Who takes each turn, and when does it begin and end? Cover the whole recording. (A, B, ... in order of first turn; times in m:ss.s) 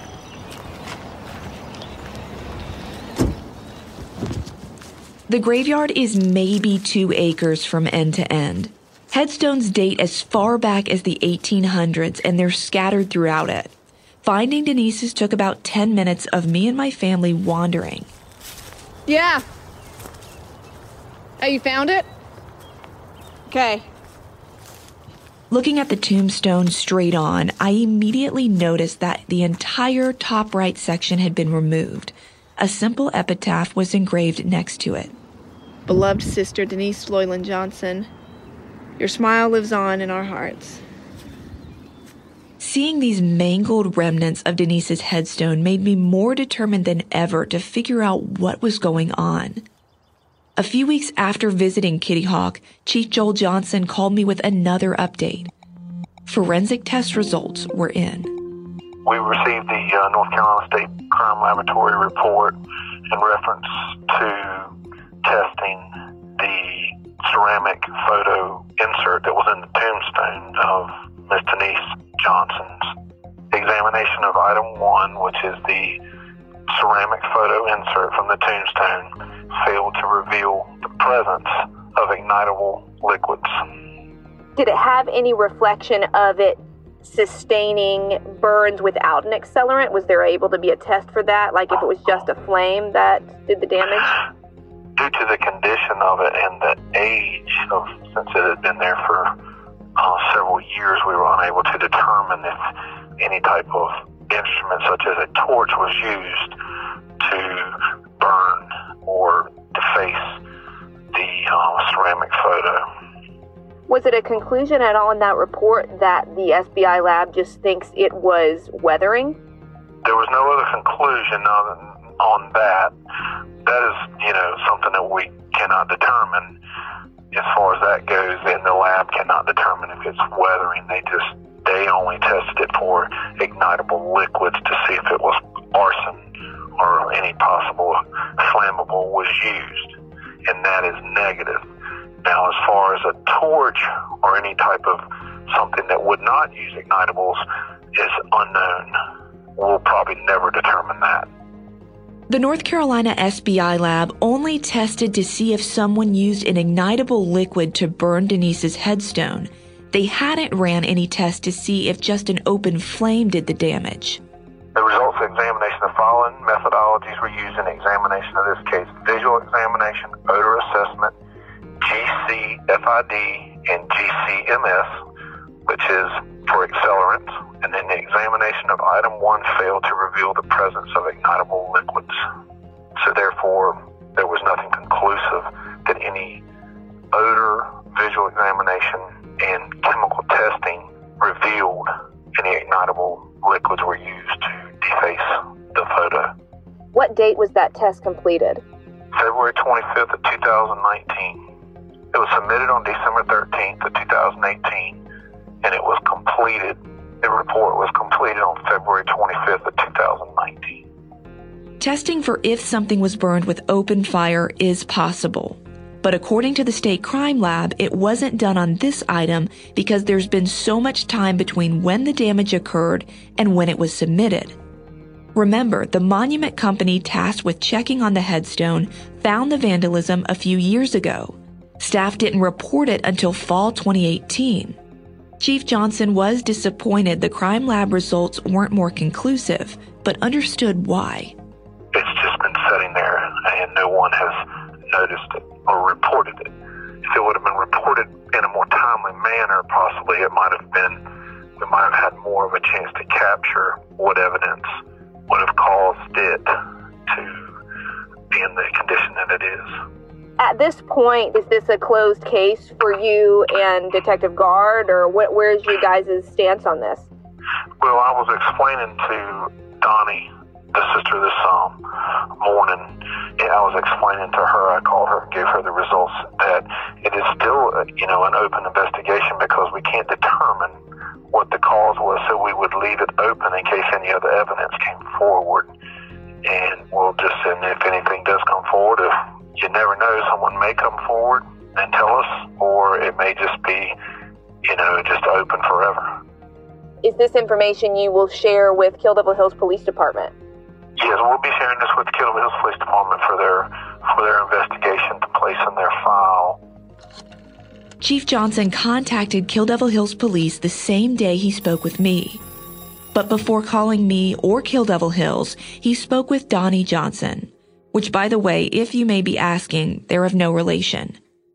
0:05.3-0:18.1 A
0:19.1-0:19.4 B
0:21.4-0:22.1 B
0:23.5-0:23.8 B
0:25.5-0:35.1 A
0:35.9-0:38.1 B
0:39.0-0:40.8 B
0:42.6-0:49.6 A
0:50.6-0:55.5 A
0:56.2-0:58.3 A
0:59.0-1:02.6 C
1:03.1-1:04.7 C
1:05.2-1:05.8 C
1:06.4-1:12.9 C
1:13.5-1:16.0 C
1:16.7-1:23.6 C
1:24.6-1:34.2 B
1:35.0-1:39.3 C
1:40.0-1:42.6 C
1:43.2-1:46.5 C
1:47.2-1:50.4 C
1:51.1-1:52.8 C
1:53.9-1:59.4 B
2:00.0-2:02.9 C
2:03.6-2:06.5 C
2:07.3-2:16.2 C
2:16.8-2:21.6 C
2:22.2-2:27.4 C
2:27.9-2:29.0 C
2:29.6-2:31.3 C
2:32.3-2:44.2 A
2:44.7-2:51.1 C
2:51.8-2:54.9 C
2:55.6-3:02.2 C
3:03.0-3:06.4 C
3:07.1-3:16.3 C
3:16.9-3:18.6 B
3:19.1-3:21.4 C
3:22.1-3:25.0 C
3:25.6-3:30.8 C
3:31.8-3:44.6 A
3:45.3-3:54.8 A
3:55.4-4:01.3 A
4:01.9-4:06.5 C
4:07.0-4:11.0 C
4:11.6-4:14.7 C
4:15.3-4:16.5 C
4:17.1-4:17.4 C
4:18.3-4:19.7 C
4:20.4-4:27.1 B
4:27.8-4:31.8 C
4:32.4-4:40.7 C
4:41.3-4:45.7 C
4:46.4-4:53.9 C
4:54.6-4:56.1 C
4:57.0-5:00.3 B
5:01.0-5:06.6 C
5:08.0-5:12.4 A
5:13.1-5:21.2 A